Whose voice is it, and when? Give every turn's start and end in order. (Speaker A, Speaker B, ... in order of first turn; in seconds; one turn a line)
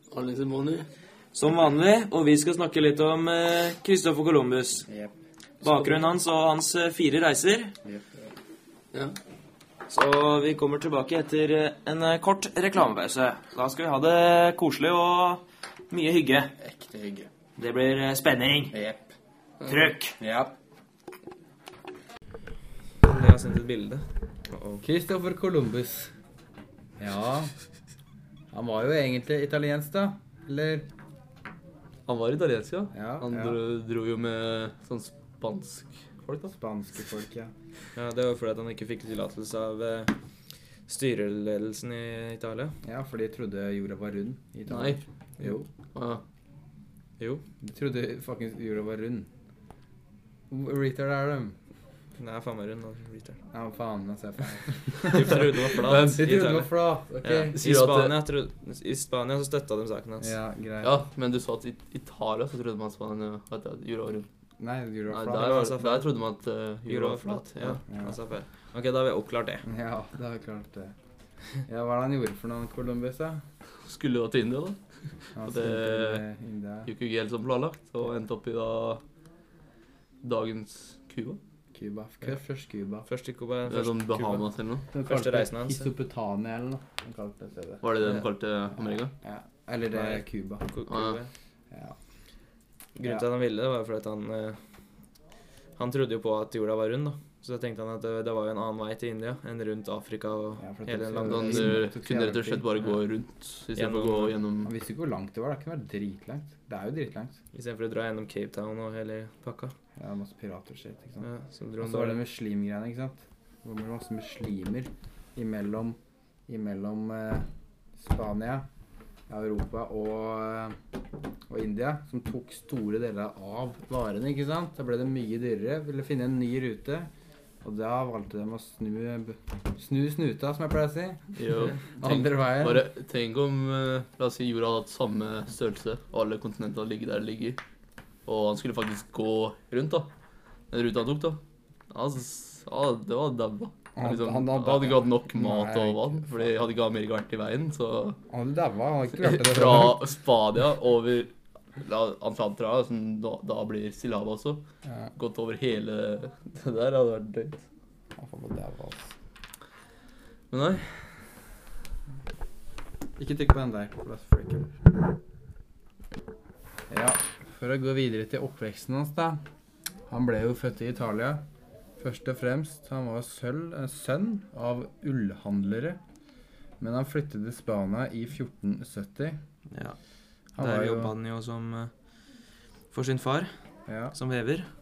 Speaker A: 0.1-0.9
Speaker B: 1.3-4.8
Speaker C: 4.9-5.1
Speaker B: 5.6-7.7
Speaker C: 7.8-8.3
Speaker B: 9.9-16.5
Speaker C: 16.6-17.3
Speaker B: 17.6-18.7
Speaker C: 18.7-19.1
Speaker B: 19.6-20.2
Speaker C: 20.2-20.5
Speaker B: 23.0-24.8
Speaker C: 24.8-26.1
Speaker C: 27.0-27.5
Speaker C: 28.5-30.9
Speaker A: 32.1-36.5
Speaker C: 32.9-33.6
Speaker C: 36.5-37.5
Speaker B: 37.9-40.1
Speaker B: 40.9-42.8
Speaker C: 42.8-45.7
Speaker A: 44.7-45.0
Speaker A: 45.9-46.2
Speaker B: 47.2-47.4
Speaker C: 47.6-49.3
Speaker C: 50.5-51.6
Speaker B: 52.2-53.4
Speaker C: 53.5-57.6
Speaker B: 55.0-56.7
Speaker A: 55.9-56.2
Speaker B: 57.2-60.4
Speaker A: 57.5-58.2
Speaker C: 60.2-61.0
Speaker A: 60.8-64.3
Speaker C: 64.6-65.7
Speaker A: 65.1-67.8
Speaker B: 65.5-66.1
Speaker B: 66.8-69.6
Speaker C: 67.9-68.2
Speaker C: 69.6-70.9
Speaker C: 71.6-73.4
Speaker A: 73.8-76.2
Speaker C: 75.3-76.9
Speaker A: 76.8-79.0
Speaker A: 80.2-81.4
Speaker C: 81.7-83.1
Speaker B: 83.1-84.4
Speaker A: 83.7-84.8
Speaker C: 84.9-87.9
Speaker B: 85.0-85.9
Speaker A: 87.8-89.1
Speaker C: 89.2-90.7
Speaker B: 89.9-91.3
Speaker A: 90.9-91.2
Speaker C: 91.7-92.0
Speaker B: 93.0-94.6
Speaker B: 95.8-101.7
Speaker C: 100.6-102.7
Speaker A: 101.2-104.7
Speaker B: 103.7-104.3
Speaker C: 104.6-107.4
Speaker B: 107.5-109.7
Speaker C: 110.0-111.3
Speaker B: 111.2-112.2
Speaker C: 111.8-118.7
Speaker C: 119.3-120.8
Speaker C: 121.5-127.1
Speaker C: 127.6-132.9
Speaker A: 131.4-137.6
Speaker A: 138.2-140.1
Speaker A: 140.7-148.2
Speaker C: 143.9-146.4
Speaker C: 148.3-150.0
Speaker A: 149.2-154.6
Speaker C: 154.8-155.1
Speaker A: 155.1-157.6
Speaker C: 158.2-159.1
Speaker A: 160.5-161.3
Speaker C: 163.2-164.8
Speaker C: 166.9-169.4
Speaker C: 170.1-171.4
Speaker C: 172.0-176.0
Speaker C: 176.8-179.4
Speaker B: 179.7-180.0
Speaker C: 180.5-181.2
Speaker B: 180.6-181.9
Speaker B: 182.9-183.5
Speaker C: 183.9-184.2
Speaker B: 184.1-184.7